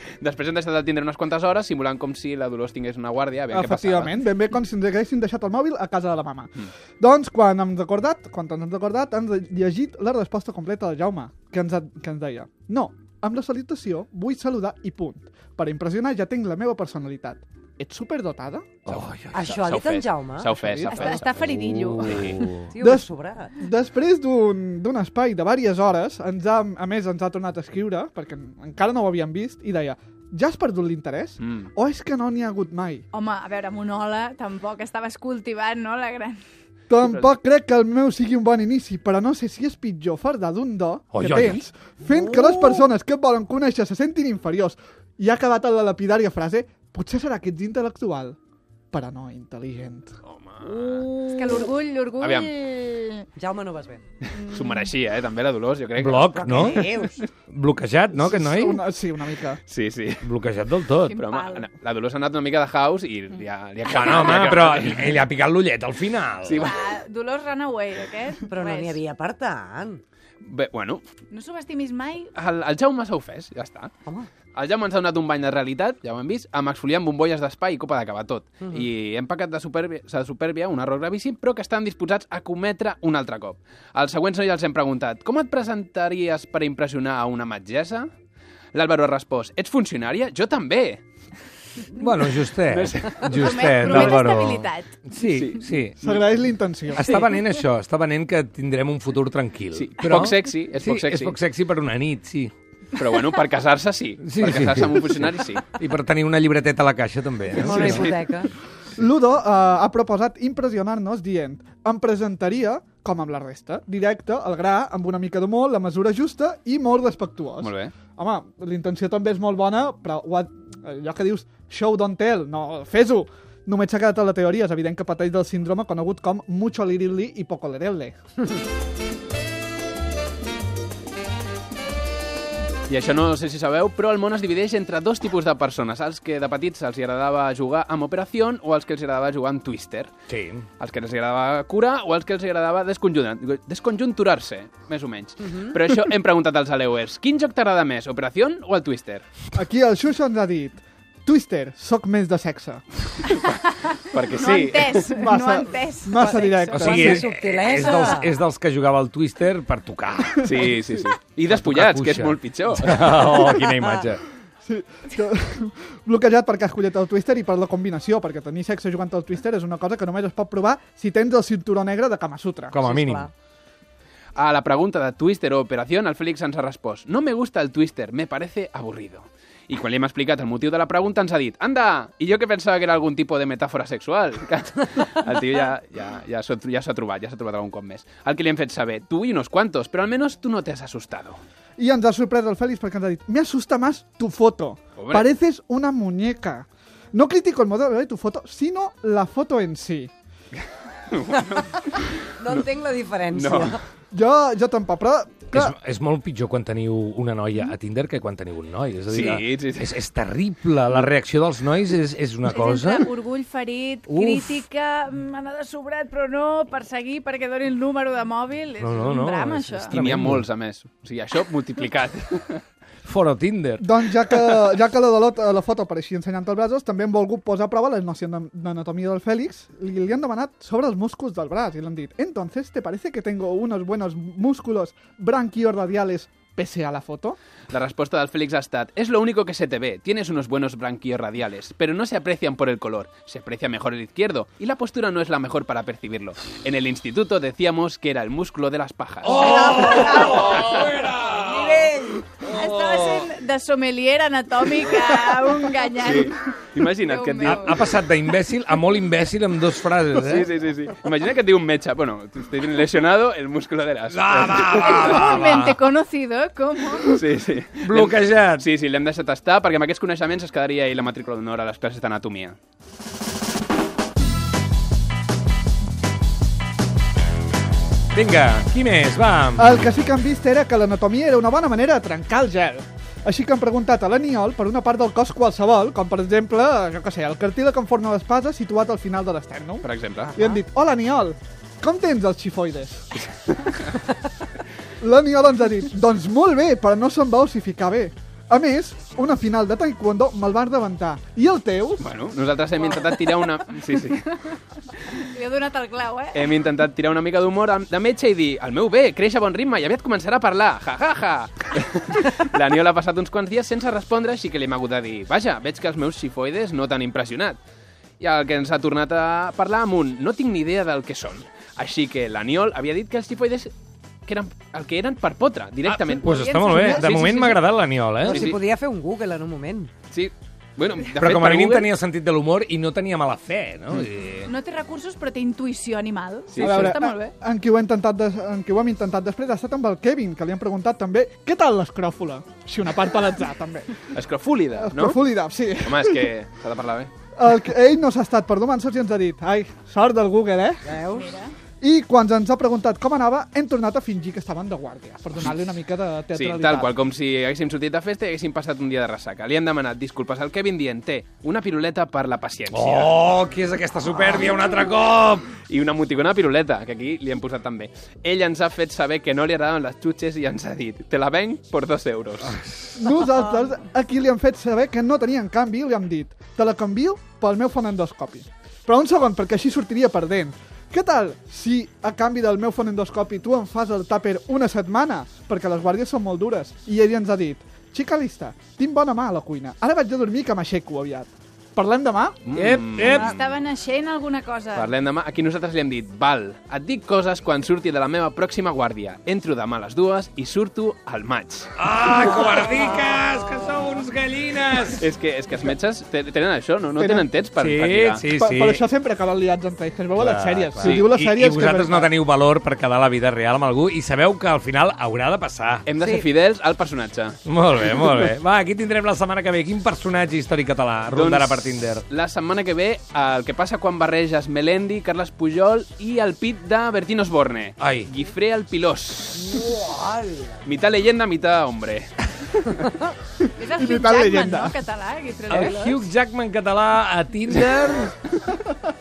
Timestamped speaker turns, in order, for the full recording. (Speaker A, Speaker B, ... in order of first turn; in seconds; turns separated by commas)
Speaker A: 0.2-4.2, Speaker B: 3.5-19.0, Speaker C: 18.9-19.4, Speaker D: 19.3-21.0, Speaker A: 19.4-22.5, Speaker B: 20.5-21.1, Speaker E: 20.8-22.6, Speaker C: 21.4-22.7, Speaker D: 22.7-23.5, Speaker B: 22.8-33.1, Speaker A: 31.4-31.7, Speaker E: 33.1-36.4, Speaker B: 36.9-48.4, Speaker A: 37.0-37.3, Speaker C: 41.1-41.6, Speaker B: 48.9-50.1, Speaker A: 50.2-51.1, Speaker E: 50.6-53.3, Speaker A: 52.2-52.5, Speaker D: 53.4-54.0, Speaker E: 54.3-54.9, Speaker A: 54.5-56.8, Speaker C: 56.0-56.8, Speaker D: 56.4-57.3, Speaker C: 57.5-58.8, Speaker B: 58.1-59.6, Speaker A: 59.7-60.2, Speaker C: 60.2-61.2, Speaker E: 61.0-61.7, Speaker A: 61.2-65.2, Speaker C: 63.9-66.8, Speaker A: 66.4-66.8, Speaker E: 66.6-69.0, Speaker D: 68.5-70.0, Speaker A: 70.4-71.0, Speaker E: 71.3-72.3, Speaker A: 72.3-73.9, Speaker A: 74.5-88.1, Speaker A: 88.7-91.0, Speaker C: 92.0-96.0, Speaker A: 92.7-94.1, Speaker E: 93.3-95.0, Speaker A: 95.3-96.4, Speaker B: 96.0-97.1, Speaker C: 96.9-102.5, Speaker D: 97.0-97.3, Speaker A: 99.7-101.4, Speaker A: 103.0-105.7, Speaker C: 104.2-108.1, Speaker A: 107.5-108.2, Speaker D: 107.6-108.5, Speaker B: 109.0-128.2, Speaker A: 117.6-117.9, Speaker A: 132.9-140.1, Speaker C: 140.3-140.7, Speaker A: 140.8-149.2, Speaker B: 149.6-153.3, Speaker A: 153.4-155.1, Speaker E: 154.2-157.0, Speaker B: 155.2-157.3, Speaker D: 156.2-158.3, Speaker C: 156.7-160.4, Speaker A: 160.4-163.5, Speaker C: 161.5-164.2, Speaker B: 164.6-172.8, Speaker C: 172.7-173.3, Speaker D: 172.9-173.3, Speaker A: 174.4-191.4, Speaker B: 191.8-200.1, Speaker A: 195.0-195.3, Speaker A: 201.1-202.7, Speaker D: 202.4-203.8, Speaker A: 203.3-203.8, Speaker B: 204.1-205.7, Speaker C: 205.5-213.1, Speaker A: 209.1-209.9, Speaker E: 212.5-220.0, Speaker C: 214.1-214.6, Speaker C: 218.8-220.5, Speaker A: 219.9-222.6, Speaker C: 223.0-223.8, Speaker B: 223.8-237.4, Speaker A: 237.7-250.8, Speaker C: 249.2-253.3, Speaker D: 249.4-250.4, Speaker D: 251.4-252.3, Speaker E: 252.5-257.8, Speaker A: 256.0-257.9, Speaker C: 257.4-260.5, Speaker A: 260.2-265.3, Speaker C: 264.1-265.8, Speaker E: 264.8-267.2, Speaker A: 267.1-272.6, Speaker C: 267.8-268.6, Speaker C: 278.1-279.7, Speaker B: 279.6-293.2, Speaker A: 289.8-290.3, Speaker D: 290.3-290.6, Speaker B: 295.0-302.0, Speaker A: 302.0-304.3, Speaker E: 302.8-303.4, Speaker E: 305.1-306.5, Speaker A: 306.3-317.6, Speaker A: 318.2-323.7, Speaker A: 324.3-327.6, Speaker C: 325.9-328.5, Speaker E: 326.2-327.3, Speaker D: 328.2-329.9, Speaker A: 328.3-328.6, Speaker A: 330.1-331.9, Speaker C: 331.2-334.5, Speaker E: 334.4-337.3, Speaker A: 336.5-337.0, Speaker B: 336.6-344.1, Speaker A: 344.1-345.2, Speaker B: 344.8-346.2, Speaker A: 345.8-347.1, Speaker B: 347.4-350.9, Speaker D: 350.9-351.4, Speaker E: 351.1-351.5, Speaker B: 351.8-356.9, Speaker A: 356.3-363.2, Speaker C: 362.7-365.5, Speaker A: 365.7-372.6, Speaker C: 372.5-373.0, Speaker B: 373.0-392.4, Speaker A: 392.4-393.4, Speaker C: 392.5-393.4, Speaker E: 393.0-394.9, Speaker A: 394.7-401.7, Speaker C: 401.8-405.1, Speaker A: 405.0-408.3, Speaker B: 407.0-407.3, Speaker C: 407.6-408.8, Speaker B: 408.4-412.1, Speaker C: 410.2-415.9, Speaker A: 410.8-411.1, Speaker A: 415.9-417.4, Speaker D: 416.0-416.3, Speaker C: 417.4-422.1, Speaker A: 421.1-429.7, Speaker C: 427.8-428.1, Speaker D: 429.5-430.5, Speaker A: 430.6-432.1, Speaker E: 433.6-436.1, Speaker B: 433.8-434.8, Speaker C: 435.5-438.2